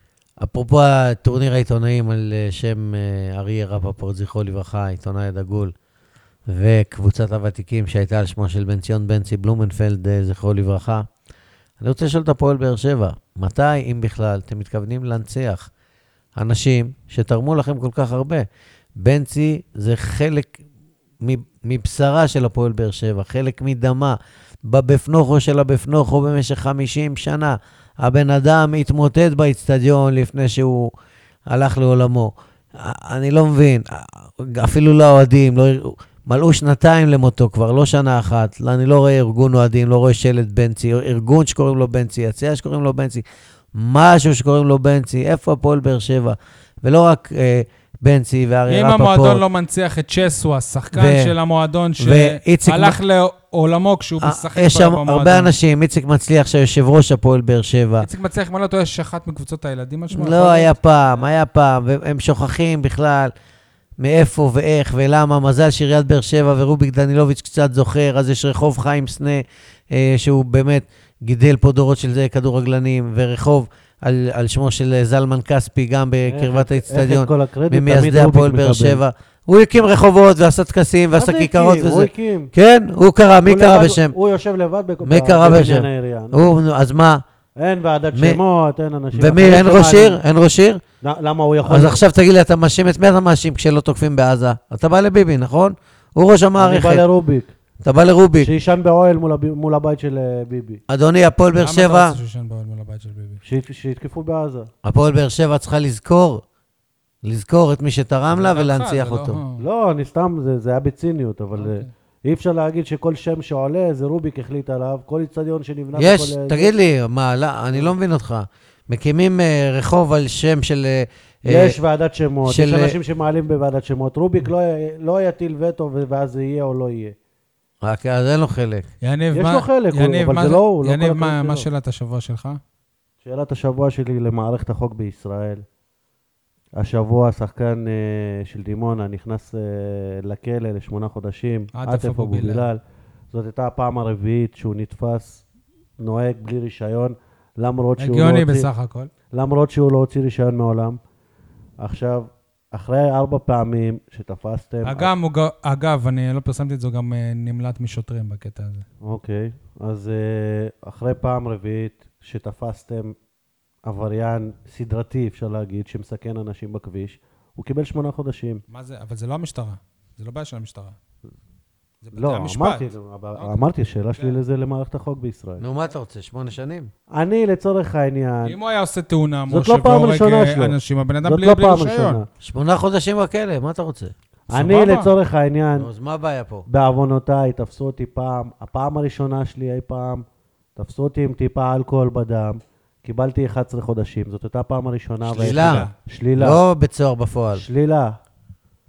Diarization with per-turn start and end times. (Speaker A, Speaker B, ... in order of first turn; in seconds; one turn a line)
Speaker A: 0.4-5.7
Speaker A: 6.5-11.1
Speaker A: 11.8-15.7
Speaker A: 16.3-20.6
Speaker A: 21.2-30.9
Speaker A: 31.5-49.4
Speaker B: 48.7-55.5
Speaker A: 50.9-51.3
Speaker A: 52.0-53.0
Speaker A: 54.2-58.1
Speaker B: 58.0-61.3
Speaker A: 60.1-63.3
Speaker A: 64.0-84.1
Speaker C: 76.3-79.0
Speaker C: 81.1-82.5
Speaker C: 83.4-86.5
Speaker A: 85.0-87.2
Speaker C: 87.6-90.2
Speaker A: 88.1-88.4
Speaker A: 89.1-90.8
Speaker C: 91.0-92.0
Speaker A: 91.7-97.0
Speaker C: 96.6-97.5
Speaker A: 97.8-98.5
Speaker C: 98.4-100.8
Speaker A: 100.9-102.2
Speaker B: 101.6-103.4
Speaker C: 103.4-104.7
Speaker A: 104.8-106.4
Speaker A: 107.2-109.4
Speaker B: 108.3-109.6
Speaker C: 109.6-116.7
Speaker B: 111.5-111.9
Speaker A: 116.0-121.8
Speaker C: 121.4-127.2
Speaker A: 122.5-123.0
Speaker A: 127.8-128.9
Speaker B: 129.0-132.6
Speaker C: 129.3-131.7
Speaker C: 133.2-135.6
Speaker C: 136.8-142.8
Speaker B: 141.8-142.7
Speaker C: 143.3-145.4
Speaker C: 146.0-148.7
Speaker B: 148.0-149.1
Speaker C: 149.3-151.0
Speaker C: 151.8-155.1
Speaker B: 154.8-158.8
Speaker C: 159.0-163.1
Speaker C: 163.8-168.6
Speaker B: 168.7-171.0
Speaker B: 172.0-174.4
Speaker C: 172.1-175.6
Speaker A: 175.6-176.9
Speaker C: 177.1-178.6
Speaker B: 178.4-182.2
Speaker C: 179.5-182.3
Speaker A: 182.4-184.1
Speaker B: 184.5-185.1
Speaker C: 184.5-185.9
Speaker A: 185.8-186.7
Speaker C: 186.7-190.2
Speaker C: 190.8-196.6
Speaker B: 195.2-195.9
Speaker A: 195.3-197.6
Speaker C: 197.5-198.1